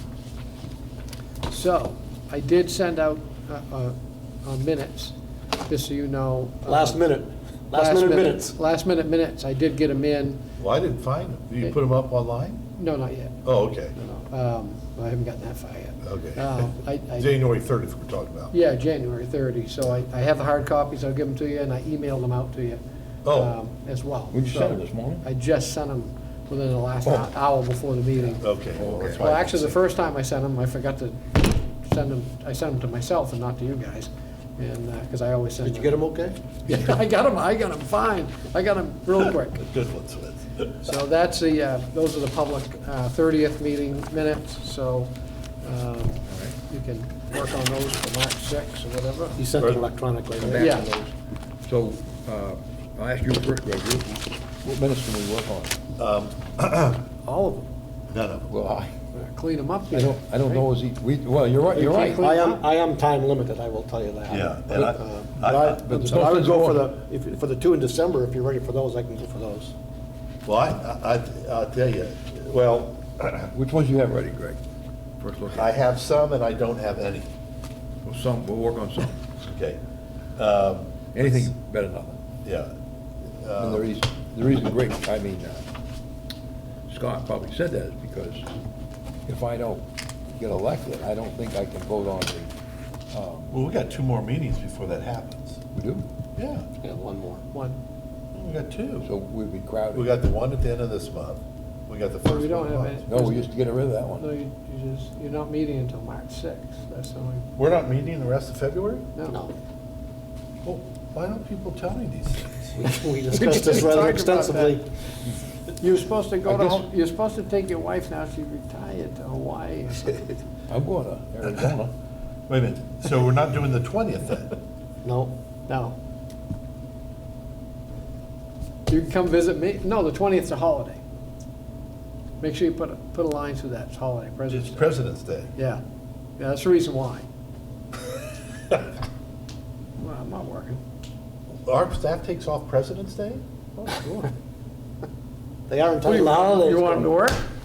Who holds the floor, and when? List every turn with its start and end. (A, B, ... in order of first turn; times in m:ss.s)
0:01.5-0:07.0 A
0:06.6-0:08.6 B
0:07.7-0:10.4 A
0:10.6-0:12.6 C
0:12.7-0:17.3 A
0:13.5-0:13.9 C
0:16.0-0:18.5 C
0:18.5-0:28.5 A
0:23.2-0:23.5 C
0:24.3-0:25.2 D
0:28.4-0:29.7 C
0:28.8-0:29.4 D
0:29.1-0:36.0 A
0:35.6-0:36.4 B
0:36.6-0:39.6 A
0:39.8-0:40.5 C
0:40.8-0:49.4 A
0:46.3-0:46.5 D
0:49.4-0:51.0 B
0:50.4-0:50.9 D
0:50.5-0:50.9 A
0:51.6-0:55.8 D
0:56.0-0:57.0 C
0:57.2-0:57.7 A
0:58.1-0:58.5 C
0:58.5-0:58.9 D
0:59.1-1:00.6 A
0:59.9-1:02.2 D
1:01.7-1:02.6 A
1:02.2-1:09.7 B
1:04.3-1:05.8 C
1:05.8-1:06.9 D
1:10.4-1:13.5 C
1:13.5-1:14.6 D
1:15.2-1:15.7 D
1:15.5-1:17.3 C
1:18.0-1:19.2 D
1:19.4-1:19.8 C
1:20.4-1:21.4 C
1:21.1-1:22.2 D
1:22.4-1:22.7 C
1:23.4-1:23.8 C
1:23.6-1:25.6 D
1:26.9-1:28.5 D
1:29.2-1:32.5 D
1:33.1-1:33.5 D
1:33.5-1:35.6 C
1:35.7-1:36.0 D
1:36.4-1:36.6 C
1:36.8-1:37.4 B
1:37.5-1:37.8 A
1:38.3-1:39.1 C
1:39.0-1:40.1 D
1:39.9-1:43.1 C
1:42.2-1:43.5 A
1:43.1-1:44.3 D
1:44.2-1:47.5 A
1:47.6-1:49.1 C
1:49.1-1:49.4 A
1:49.3-1:49.5 B
1:50.6-1:52.7 C
1:52.8-1:54.9 B
1:53.3-1:54.8 A
1:55.8-2:00.4 A
1:56.4-1:56.8 D
2:00.7-2:01.9 D
2:02.5-2:04.5 C
2:05.0-2:05.3 B
2:05.7-2:06.0 A
2:08.9-2:11.0 A
2:12.4-2:15.0 A
2:14.6-2:15.5 C
2:15.6-2:15.8 A
2:16.4-2:17.2 A
2:20.0-2:20.8 A
2:21.6-2:23.4 C
2:23.8-2:24.3 A
2:25.7-2:27.1 B
2:26.0-2:27.5 A